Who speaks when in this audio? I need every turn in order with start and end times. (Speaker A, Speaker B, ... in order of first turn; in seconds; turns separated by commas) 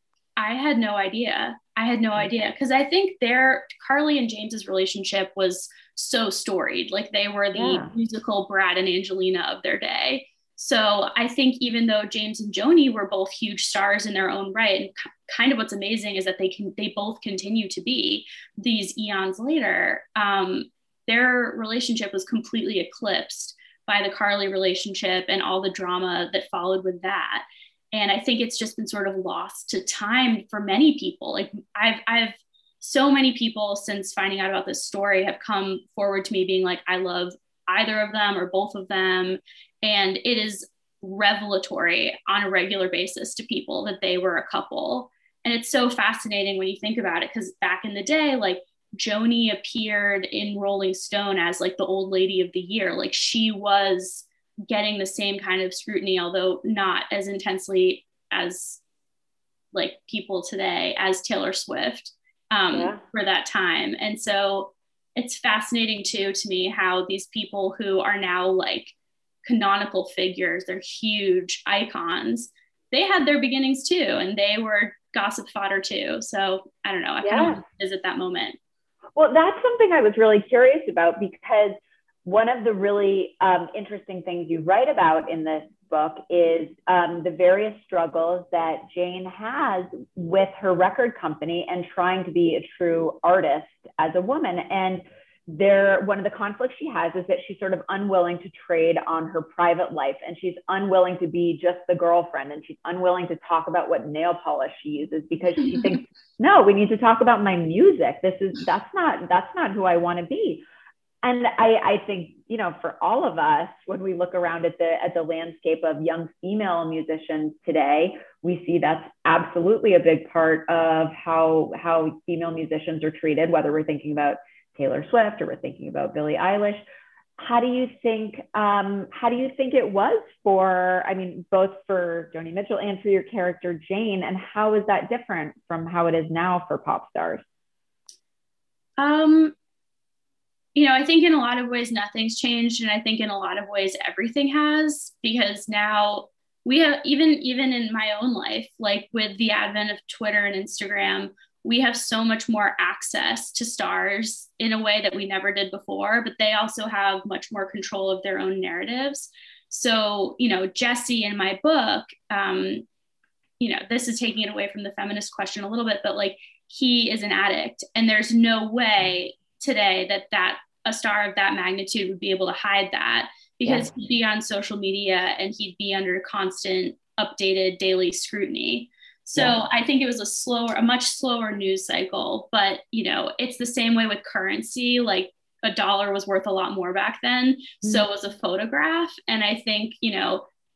Speaker A: 0.4-58.8, Speaker B: 7.5-7.9, Speaker A: 59.7-68.9, Speaker B: 62.7-63.0, Speaker A: 69.5-78.6, Speaker B: 77.2-77.6, Speaker B: 79.2-110.6, Speaker B: 111.2-126.8, Speaker B: 127.4-137.4, Speaker A: 139.0-139.5, Speaker A: 140.8-162.8, Speaker A: 163.6-190.4, Speaker B: 173.7-173.9